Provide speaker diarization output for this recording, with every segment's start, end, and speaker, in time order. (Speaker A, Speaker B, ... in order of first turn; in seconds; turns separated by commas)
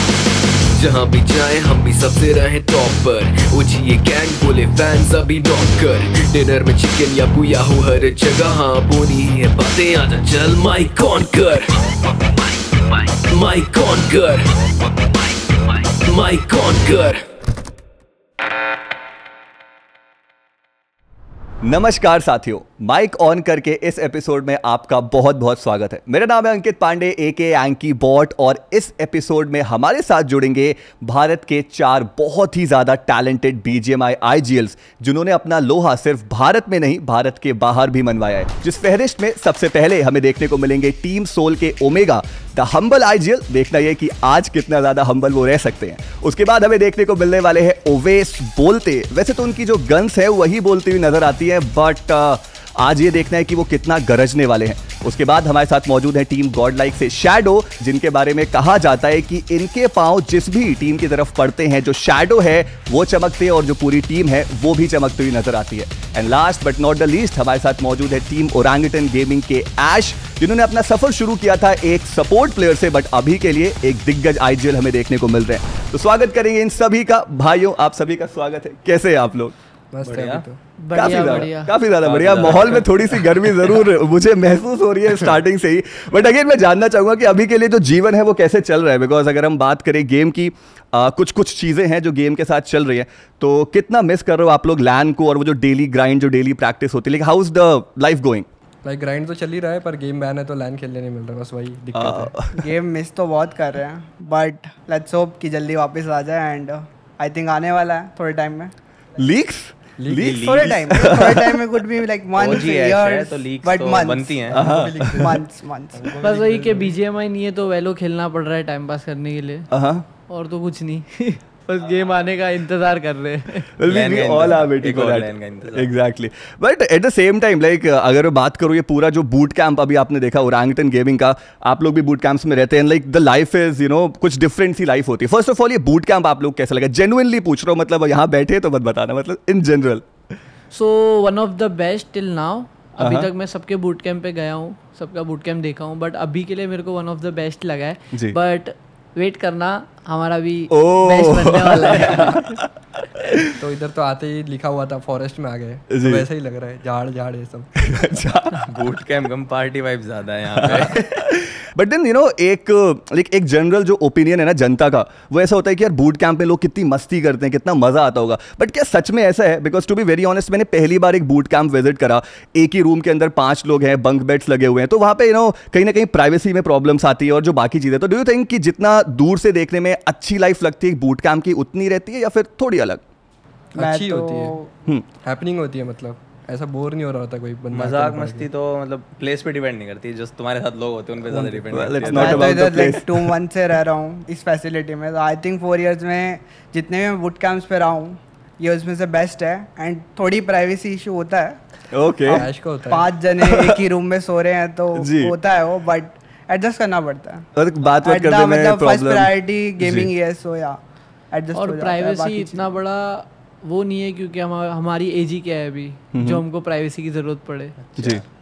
Speaker A: 0.7-17.2, Speaker B: 21.6-79.5, Speaker C: 79.9-80.6, Speaker D: 80.0-80.5, Speaker E: 80.8-81.7, Speaker B: 80.9-98.5, Speaker D: 82.0-83.8, Speaker C: 98.8-102.3, Speaker B: 102.0-102.7, Speaker F: 102.6-108.7, Speaker B: 109.2-111.7, Speaker C: 110.0-110.5, Speaker D: 110.2-110.8, Speaker F: 110.4-114.6, Speaker D: 112.3-114.6, Speaker C: 114.5-117.0, Speaker B: 114.5-115.3, Speaker F: 115.2-116.1, Speaker E: 116.2-119.7, Speaker B: 119.7-120.0, Speaker E: 120.3-123.7, Speaker B: 123.8-140.1, Speaker D: 123.8-125.9, Speaker E: 140.7-152.4, Speaker B: 143.0-143.3, Speaker B: 150.7-152.7, Speaker B: 153.2-153.6, Speaker C: 153.6-158.1, Speaker B: 155.9-156.2, Speaker B: 157.8-158.7, Speaker D: 158.7-161.2, Speaker B: 160.6-183.0, Speaker C: 183.7-184.6, Speaker F: 183.8-184.7, Speaker C: 185.2-188.5, Speaker D: 187.7-192.6, Speaker C: 191.3-191.7, Speaker B: 191.7-193.3, Speaker F: 192.1-201.6, Speaker B: 201.9-202.5, Speaker F: 202.2-207.5, Speaker C: 202.3-203.1, Speaker B: 203.4-203.8, Speaker B: 204.9-205.4, Speaker B: 207.6-210.1, Speaker F: 208.0-210.8, Speaker F: 211.3-212.7, Speaker E: 211.5-217.8, Speaker B: 216.1-216.4, Speaker D: 217.8-218.3, Speaker B: 218.0-218.2